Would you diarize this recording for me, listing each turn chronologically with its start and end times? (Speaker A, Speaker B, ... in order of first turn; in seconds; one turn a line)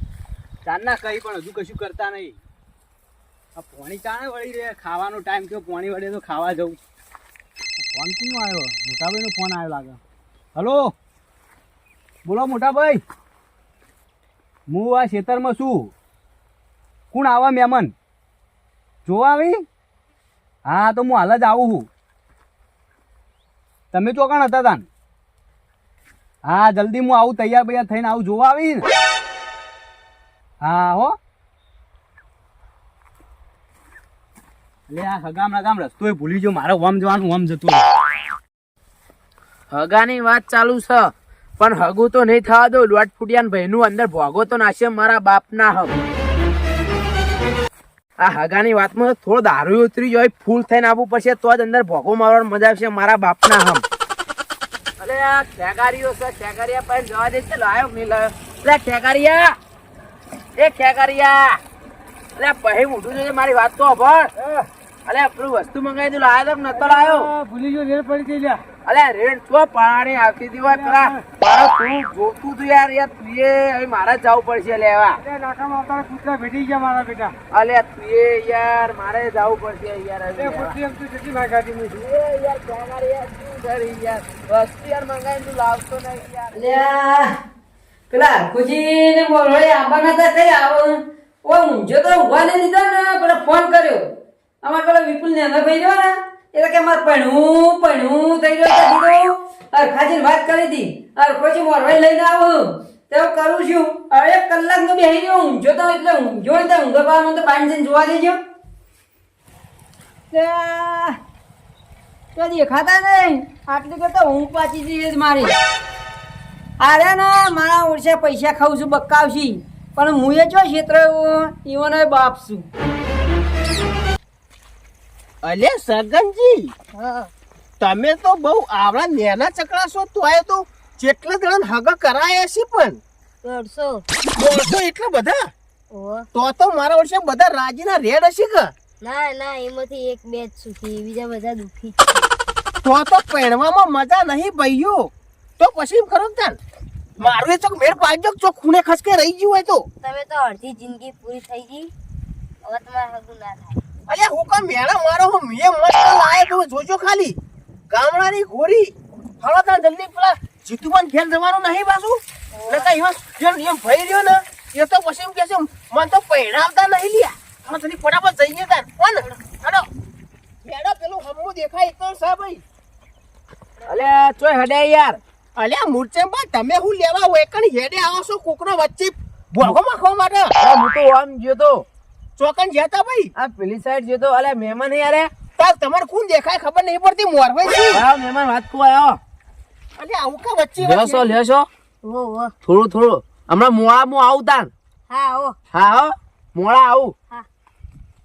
Speaker A: 0.6-2.4
Speaker A: 3.5-6.8
Speaker A: 7.8-10.0
Speaker A: 10.6-10.9
Speaker A: 12.2-13.0
Speaker A: 14.7-15.9
Speaker A: 17.1-17.9
Speaker A: 19.0-19.6
Speaker A: 20.6-21.9
Speaker A: 23.9-24.9
Speaker A: 26.4-28.8
Speaker A: 30.6-31.1
Speaker A: 34.9-37.8
Speaker B: 39.7-46.0
Speaker B: 48.2-53.8
Speaker B: 55.0-59.6
Speaker B: 60.6-61.6
Speaker B: 62.4-64.3
Speaker A: 64.4-64.7
Speaker B: 65.0-67.3
Speaker A: 66.7-68.6
Speaker B: 68.8-75.2
Speaker A: 70.7-71.2
Speaker A: 75.3-77.3
Speaker B: 77.5-80.8
Speaker A: 80.8-81.7
Speaker B: 81.8-86.6
Speaker C: 86.5-87.4
Speaker C: 88.1-94.0
Speaker C: 94.6-108.4
Speaker C: 110.3-111.2
Speaker C: 112.3-115.5
Speaker C: 116.8-122.7
Speaker D: 125.4-126.7
Speaker E: 127.0-127.3
Speaker D: 127.8-133.0
Speaker E: 133.4-134.0
Speaker D: 134.3-135.5
Speaker E: 135.9-136.2
Speaker D: 136.3-138.7
Speaker E: 139.0-142.2
Speaker D: 142.8-146.6
Speaker D: 147.2-149.9
Speaker E: 150.0-151.9
Speaker E: 152.7-153.8
Speaker D: 154.1-157.4
Speaker D: 157.9-169.9
Speaker D: 170.6-172.6
Speaker B: 173.8-175.2
Speaker D: 175.6-180.5
Speaker B: 180.6-181.8
Speaker D: 182.4-183.3
Speaker B: 183.3-185.3
Speaker D: 185.6-188.0
Speaker B: 187.9-189.2
Speaker D: 190.0-191.3
Speaker B: 190.8-191.7
Speaker E: 192.0-192.5
Speaker B: 192.6-194.7
Speaker E: 195.1-195.6
Speaker B: 195.7-197.1